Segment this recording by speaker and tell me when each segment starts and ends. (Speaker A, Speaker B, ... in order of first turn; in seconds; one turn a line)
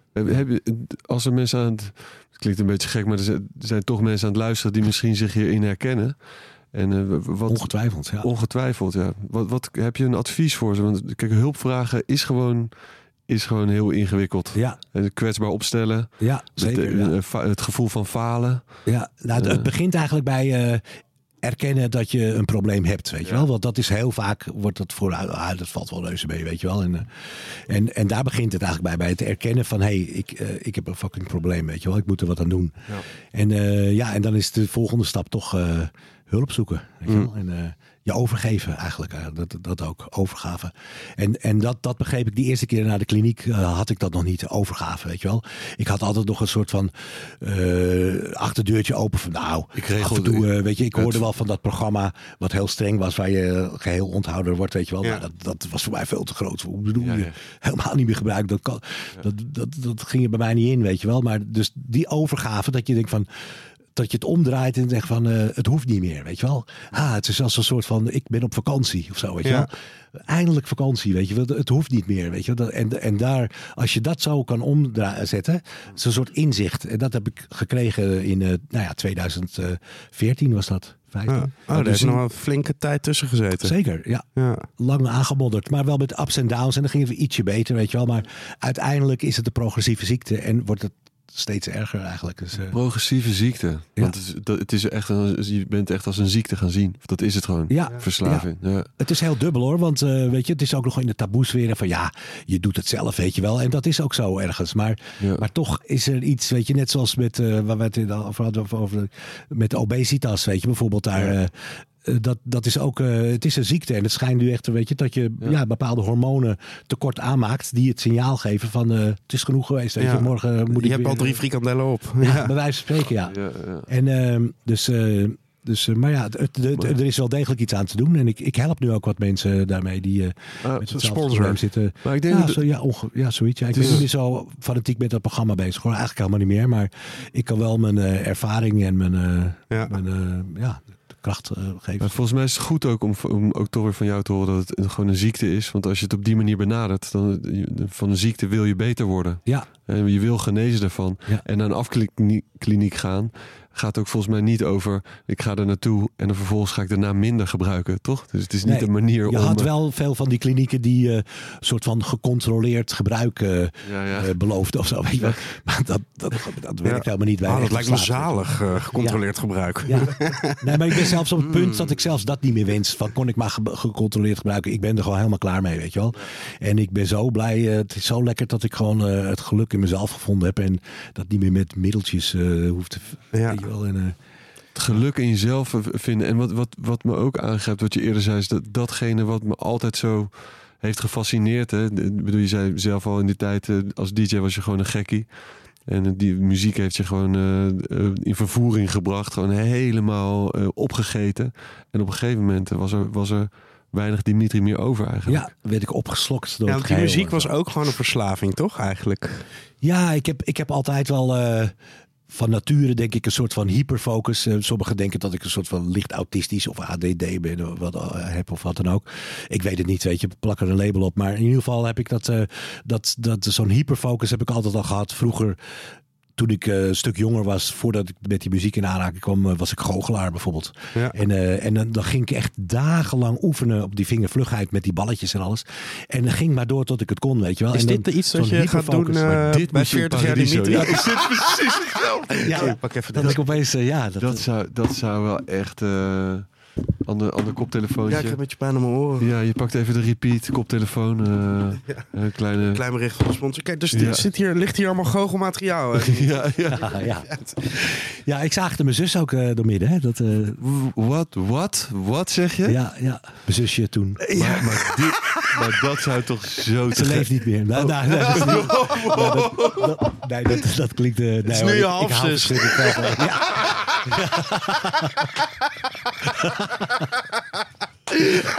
Speaker A: 0.1-12.8
Speaker B: 7.5-8.3
Speaker A: 13.3-18.8
Speaker B: 14.5-14.8
Speaker B: 16.2-17.1
Speaker B: 18.9-20.8
Speaker A: 19.4-19.7
Speaker B: 21.4-63.3
Speaker A: 49.8-51.3
Speaker A: 57.0-57.3
Speaker B: 63.9-82.2
Speaker C: 81.3-83.8
Speaker B: 83.6-92.8
Speaker C: 84.3-84.7
Speaker A: 92.7-98.9
Speaker B: 97.7-121.4
Speaker C: 120.0-122.5
Speaker B: 122.2-142.2
Speaker A: 123.3-123.9
Speaker C: 130.9-131.6
Speaker A: 132.0-132.6
Speaker A: 133.7-134.0
Speaker A: 142.0-159.7
Speaker B: 158.6-169.2
Speaker A: 163.8-164.3
Speaker C: 166.8-171.9
Speaker B: 169.8-184.2
Speaker C: 183.3-183.6
Speaker A: 184.8-205.5
Speaker B: 205.3-207.5
Speaker C: 206.7-209.5
Speaker B: 209.8-211.8
Speaker B: 212.3-225.6
Speaker B: 226.4-239.6
Speaker C: 237.7-241.5
Speaker A: 239.5-243.4
Speaker C: 242.4-243.4
Speaker B: 242.5-244.4
Speaker A: 244.2-248.4
Speaker C: 248.1-249.3
Speaker A: 249.2-252.8
Speaker C: 252.7-256.6
Speaker A: 253.9-254.3
Speaker A: 256.0-256.9
Speaker B: 256.7-260.6
Speaker C: 257.3-257.6
Speaker A: 260.6-262.8
Speaker B: 262.6-264.3
Speaker C: 264.3-265.5
Speaker A: 264.4-269.9
Speaker B: 266.9-275.3
Speaker C: 268.7-269.0
Speaker C: 271.5-273.2
Speaker B: 276.2-277.1